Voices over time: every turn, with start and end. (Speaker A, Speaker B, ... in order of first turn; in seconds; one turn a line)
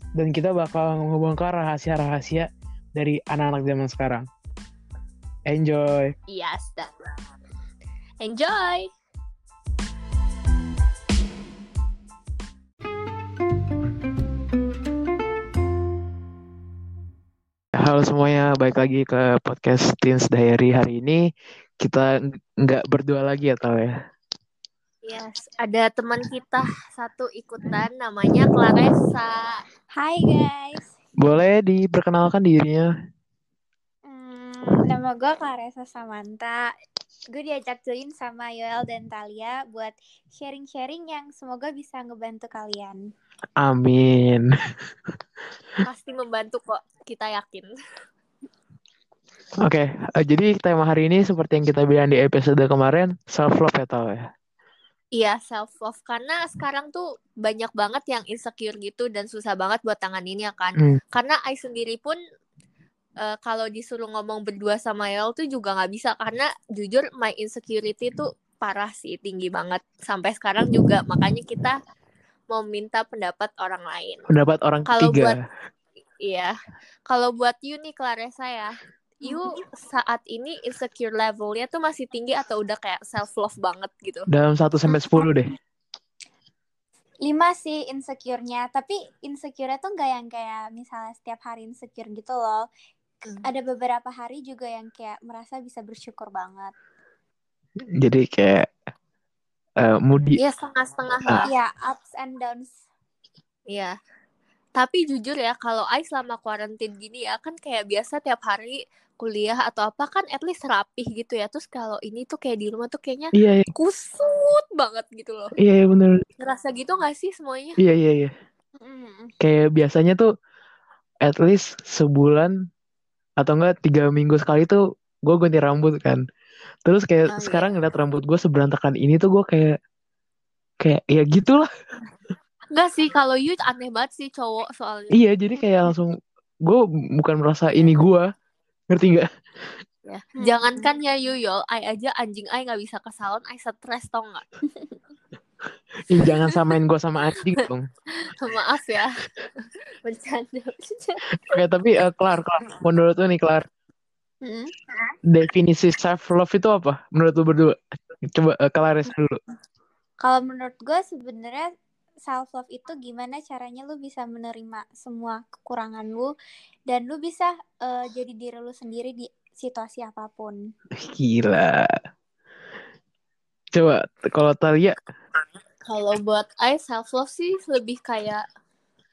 Speaker A: 0.2-4.2
Speaker A: 5.5-6.1
Speaker B: 6.3-6.9
Speaker B: 8.2-8.9
Speaker A: 17.8-21.2
Speaker A: 21.8-23.9
Speaker B: 25.0-29.5
Speaker C: 29.9-30.9
Speaker A: 31.2-32.9
Speaker C: 34.1-36.7
Speaker C: 37.3-43.0
Speaker A: 43.6-44.5
Speaker B: 45.8-47.7
Speaker A: 49.6-54.3
Speaker B: 55.1-62.2
Speaker B: 63.2-71.8
Speaker B: 72.5-74.2
Speaker A: 74.3-75.4
Speaker B: 74.9-75.4
Speaker B: 76.2-76.5
Speaker B: 77.1-84.3
Speaker A: 84.3-85.5
Speaker C: 87.2-92.6
Speaker C: 93.4-96.7
Speaker A: 98.0-98.7
Speaker A: 99.8-100.4
Speaker B: 100.4-101.5
Speaker C: 101.5-102.8
Speaker B: 103.7-103.9
Speaker B: 104.8-115.5
Speaker A: 113.3-113.7
Speaker A: 115.6-116.2
Speaker B: 116.4-117.8
Speaker A: 117.8-118.3
Speaker C: 118.8-119.3
Speaker A: 119.4-120.3
Speaker A: 121.2-122.5
Speaker A: 123.4-126.2
Speaker A: 126.8-129.8
Speaker B: 127.2-127.7
Speaker A: 130.8-131.7
Speaker B: 132.7-135.2
Speaker A: 135.1-138.3
Speaker A: 138.9-139.3
Speaker B: 140.1-144.4
Speaker C: 140.3-140.8
Speaker A: 146.0-147.9
Speaker B: 146.2-146.5
Speaker B: 148.1-149.1
Speaker B: 150.0-151.2
Speaker A: 151.5-153.7
Speaker C: 154.4-155.1
Speaker A: 155.3-159.4
Speaker C: 160.2-161.7
Speaker C: 162.2-166.3
Speaker C: 166.9-170.6
Speaker A: 170.9-171.9
Speaker A: 173.7-175.0
Speaker B: 175.9-178.4